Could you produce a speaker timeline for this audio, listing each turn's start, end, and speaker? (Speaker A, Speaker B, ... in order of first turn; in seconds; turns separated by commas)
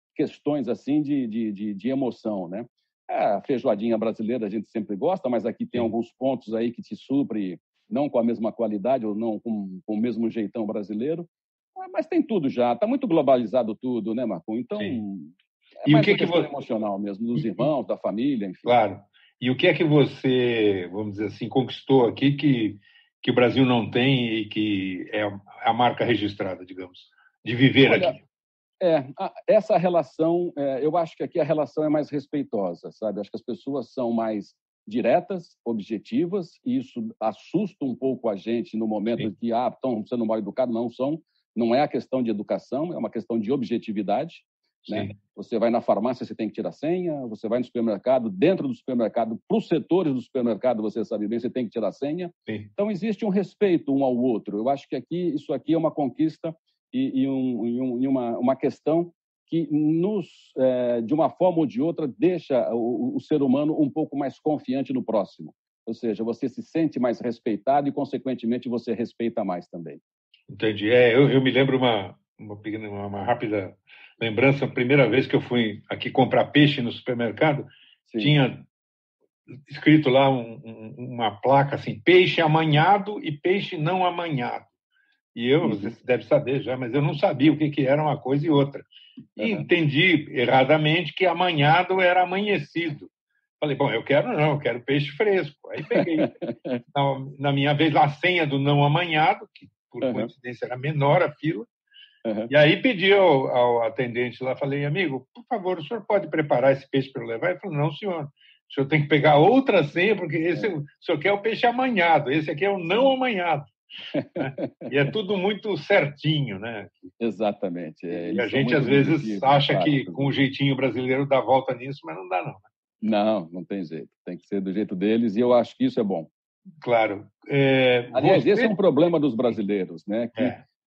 Speaker A: 0.1-18.7, Speaker B: 15.9-16.5, Speaker B: 17.4-17.7, Speaker B: 18.6-28.2, Speaker A: 27.8-28.2, Speaker A: 28.8-70.0, Speaker B: 44.9-45.1, Speaker B: 70.5-78.7, Speaker A: 78.1-78.3, Speaker B: 79.7-84.7, Speaker B: 85.3-88.9, Speaker A: 85.6-85.9, Speaker B: 89.4-93.1, Speaker A: 89.4-89.7, Speaker B: 93.6-96.3, Speaker A: 95.9-96.8, Speaker B: 96.9-101.7, Speaker A: 100.0-100.3, Speaker A: 102.2-102.5, Speaker B: 102.5-113.7, Speaker A: 114.1-114.9, Speaker B: 114.4-117.1, Speaker A: 117.2-120.3, Speaker B: 118.1-122.6, Speaker A: 123.0-126.3, Speaker B: 126.8-128.7, Speaker A: 128.1-130.6, Speaker B: 130.4-130.6